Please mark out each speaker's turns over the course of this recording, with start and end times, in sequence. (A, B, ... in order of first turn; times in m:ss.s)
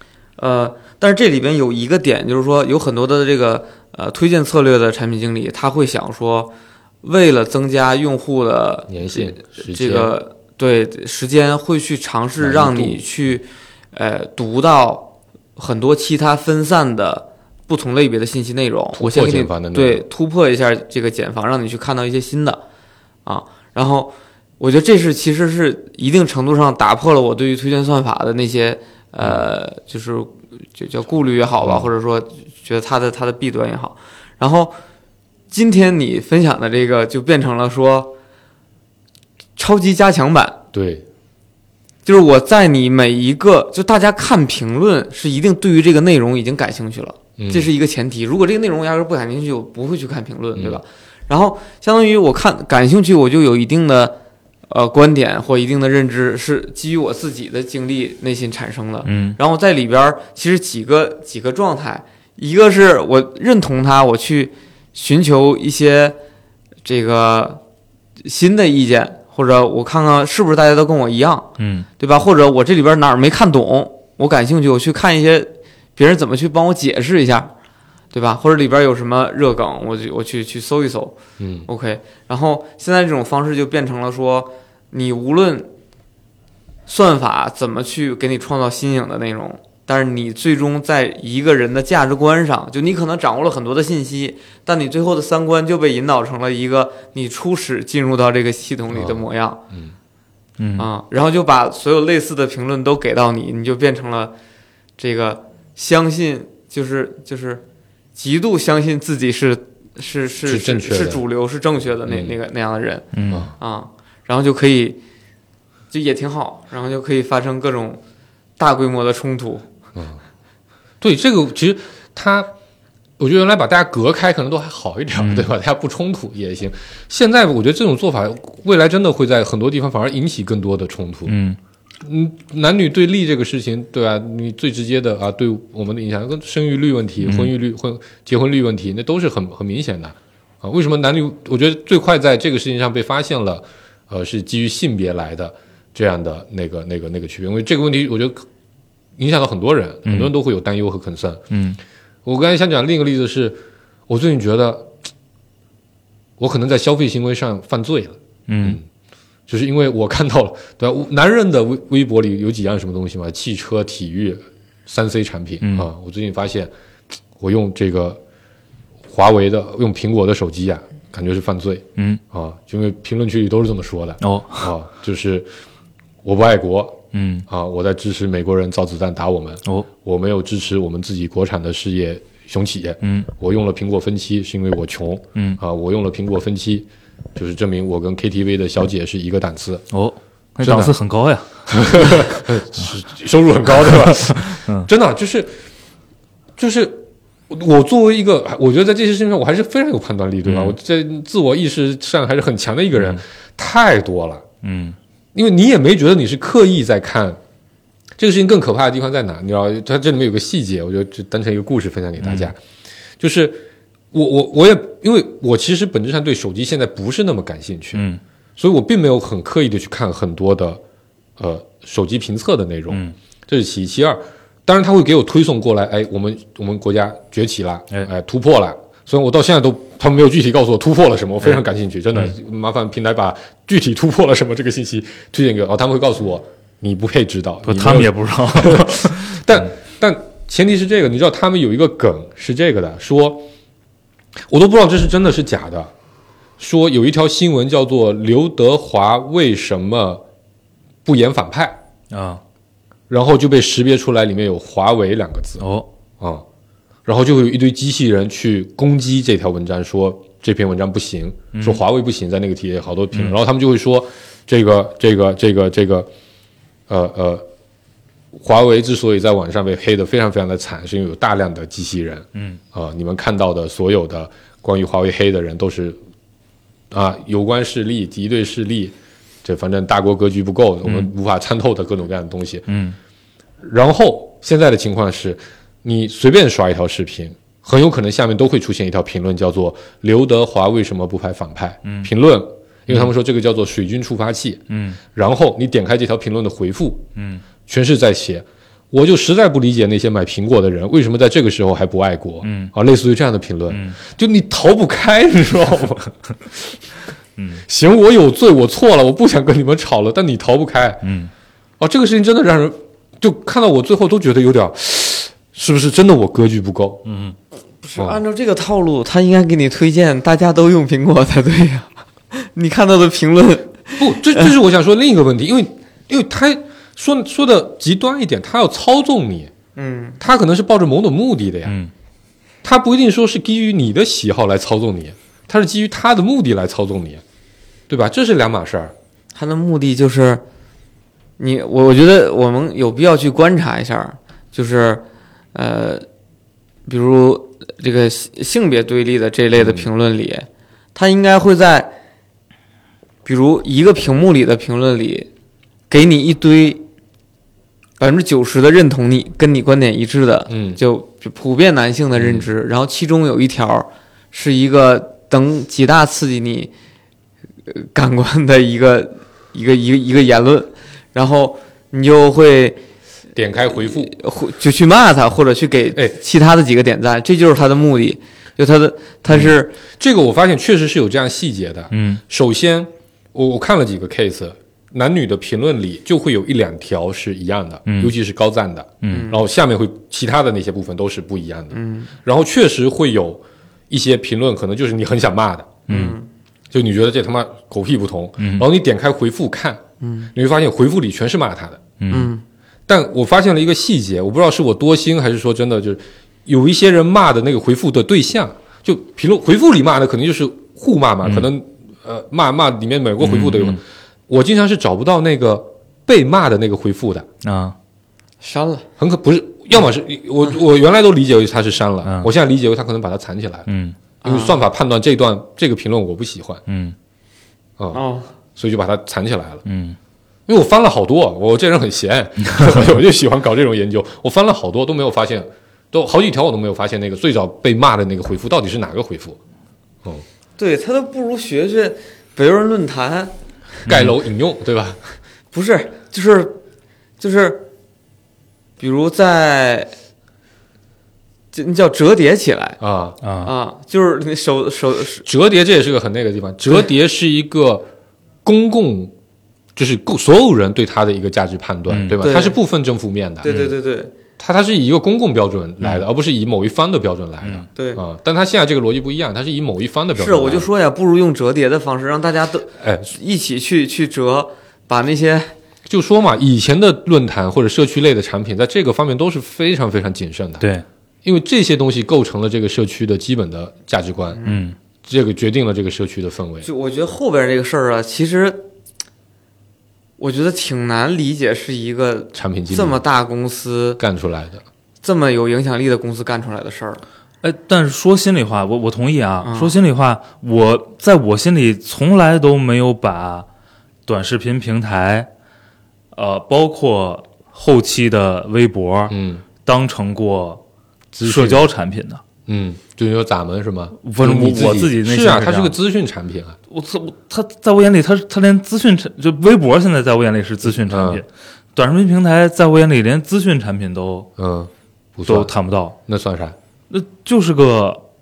0:00.4-0:22.6 A
0:08.9-0:10.1 B
0:12.4-0:13.0 B
0:19.0-0:20.0 B
0:23.2-0:34.8 A
0:31.6-0:31.9 B
0:35.5-0:38.2 A
0:39.6-0:40.6 A
0:40.7-0:41.0 B
0:42.0-0:54.2 A
0:47.4-0:47.7 B
0:50.5-0:50.8 B
0:54.7-1:06.2 A
0:59.0-0:59.4 C
1:06.8-1:07.6 A
1:08.2-1:17.5 A
1:11.6-1:11.9 C
1:18.1-1:25.7 A
1:21.4-1:21.7 B
1:26.9-1:39.6 A
1:38.9-1:39.9 B
1:40.6-1:40.9 C
1:40.8-1:44.3 A
1:45.0-1:47.6 A
1:48.2-1:53.1 A
1:50.4-1:51.2 B
1:52.0-1:52.4 B
1:53.1-1:53.5 C
1:53.3-1:53.5 B
1:53.6-1:55.0 A
1:55.9-1:58.0 A
1:58.6-1:59.6 A
1:59.9-2:00.2 B
2:01.0-2:02.5 B
2:03.2-2:11.4 B
2:05.2-2:05.5 C
2:11.3-2:11.6 C
2:12.0-2:28.4 B
2:17.2-2:17.5 C
2:29.2-2:31.4 B
2:30.0-2:30.3 C
2:31.5-2:31.8 C
2:32.2-2:35.0 B
2:36.4-2:38.8 B
2:38.5-2:38.8 C
2:39.5-2:46.7 B
2:45.6-2:45.9 C
2:47.4-2:48.2 B
2:49.1-2:55.5 B
2:54.2-2:54.7 C
2:56.2-3:09.8 B
2:57.1-2:57.4 C
3:03.0-3:03.3 C
3:05.3-3:05.6 C
3:09.9-3:12.4 C
3:10.6-3:10.9 B
3:11.7-3:15.6 B
3:13.9-3:14.9 C
3:16.6-3:24.4 B
3:20.4-3:20.8 C
3:24.6-3:25.0 C
3:25.3-3:27.4 B
3:28.2-3:32.6 B
3:32.2-3:32.5 C
3:33.2-3:38.0 B
3:37.9-3:38.2 C
3:38.6-3:40.8 B
3:41.4-4:03.5 B
3:42.9-3:43.1 C
3:57.6-3:59.6 C
4:04.5-4:05.9 B
4:06.6-4:10.2 B
4:11.0-4:11.8 B
4:12.1-4:12.4 C
4:13.1-4:15.7 B
4:15.6-4:15.9 C
4:16.2-4:16.4 B
4:17.0-4:26.1 B
4:21.5-4:21.8 C
4:26.9-4:27.4 B
4:28.3-4:36.0 B
4:32.3-4:32.6 C
4:36.9-4:42.7 B
4:42.7-4:43.0 C
4:43.6-4:57.0 B
4:51.8-4:52.1 C
4:54.7-4:55.0 C
4:57.2-4:57.4 C
4:57.6-5:06.8 B
5:02.4-5:02.7 C
5:03.7-5:04.0 C
5:07.4-5:07.6 C
5:07.6-5:11.1 B
5:11.0-5:11.3 C
5:11.8-5:17.1 B
5:17.1-5:17.4 C
5:17.8-5:24.5 A
5:18.0-5:18.2 B
5:24.0-5:29.5 B
5:29.8-5:30.2 A
5:30.2-5:31.7 B
5:31.6-5:31.9 C
5:32.6-5:37.2 B
5:37.9-5:38.9 B
5:39.3-5:40.4 A
5:41.4-5:46.0 A
5:46.8-5:51.9 A
5:49.6-5:49.9 B
5:53.2-5:55.3 A
5:55.9-5:56.8 A
5:58.0-6:06.7 A
6:00.5-6:00.8 B
6:02.2-6:02.5 B
6:07.7-6:12.8 A
6:13.3-6:14.1 B
6:13.7-6:19.8 A
6:19.9-6:35.8 B
6:21.9-6:22.2 C
6:27.8-6:28.1 C
6:29.0-6:29.3 C
6:29.1-6:29.4 A
6:31.7-6:32.1 A
6:35.9-6:36.2 C
6:35.9-6:36.3 A
6:36.7-6:39.8 B
6:38.4-6:38.7 C
6:40.0-6:40.3 A
6:40.3-6:41.9 B
6:42.0-6:42.3 C
6:42.1-6:42.4 A
6:42.9-6:57.3 B
6:53.2-6:53.8 C
6:57.4-6:57.8 C
6:58.4-6:58.9 A
6:59.0-7:03.7 B
7:03.7-7:04.0 C
7:04.2-7:04.6 A
7:04.2-7:06.6 B
7:06.7-7:07.0 C
7:07.9-7:08.3 A
7:08.6-7:09.6 B
7:09.6-7:10.0 C
7:10.5-7:19.4 B
7:20.6-7:23.3 A
7:23.8-7:25.1 B
7:23.9-7:24.1 C
7:25.5-7:26.6 A
7:27.2-7:27.7 A
7:28.8-7:29.9 A
7:31.5-7:32.8 A
7:32.8-7:33.2 B
7:33.2-7:33.5 C
7:33.4-7:35.2 A
7:35.2-7:37.9 B
7:38.4-7:39.1 B
7:39.7-7:43.6 B
7:41.9-7:42.2 C
7:42.2-7:42.6 A
7:43.4-7:44.1 A
7:44.4-7:50.7 B
7:47.4-7:47.7 C
7:47.7-7:48.0 A
7:50.2-7:55.5 A
7:52.7-7:53.1 B
7:55.8-8:00.7 B
8:01.2-8:04.4 B
8:04.3-8:04.7 A
8:04.4-8:04.7 C
8:05.0-8:06.7 B
8:06.6-8:08.7 A
8:10.2-8:14.0 A
8:12.3-8:13.0 B
8:14.0-8:14.6 B
8:15.0-8:17.0 A
8:17.4-8:23.5 C
8:19.4-8:19.7 A
8:24.0-8:25.3 C
8:26.1-8:30.6 C
8:29.1-8:29.4 B
8:31.1-8:31.7 B
8:31.2-8:32.2 C
8:32.4-8:36.6 B
8:34.0-8:35.7 C
8:36.7-8:44.3 C
8:40.7-8:41.2 B
8:44.4-8:46.6 B
8:45.2-8:46.0 C
8:46.9-8:48.0 C